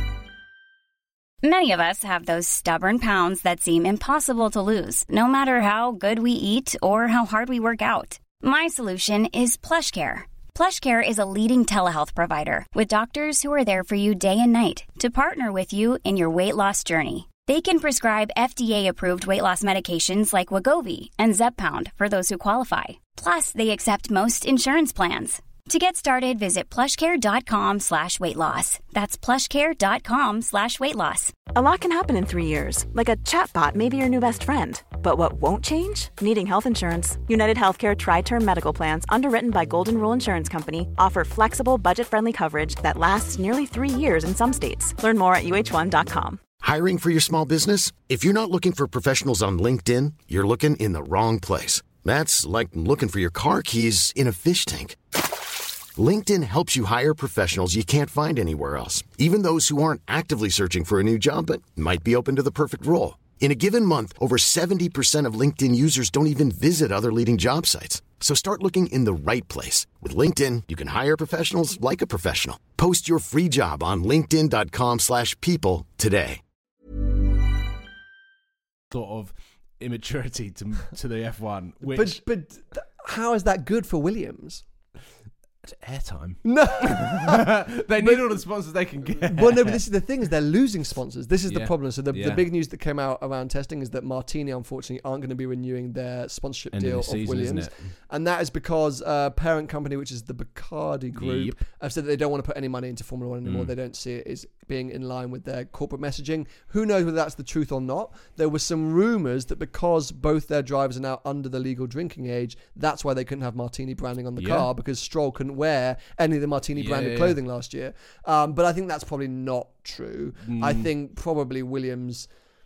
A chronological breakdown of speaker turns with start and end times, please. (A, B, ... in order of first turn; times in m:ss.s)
0:01.4-0:31.3 A
0:31.5-0:46.4 B
0:46.6-0:55.0 C
0:56.0-1:16.4 C
1:18.9-1:22.2 D
1:21.8-1:24.6 E
1:25.6-1:29.8 D
1:26.4-1:28.4 E
1:29.2-2:02.3 E
1:31.5-1:32.4 D
1:36.7-1:37.9 D
1:41.2-1:41.6 D
1:43.4-1:43.7 D
1:54.4-1:54.7 D
1:56.8-1:57.4 D
2:00.5-2:00.9 D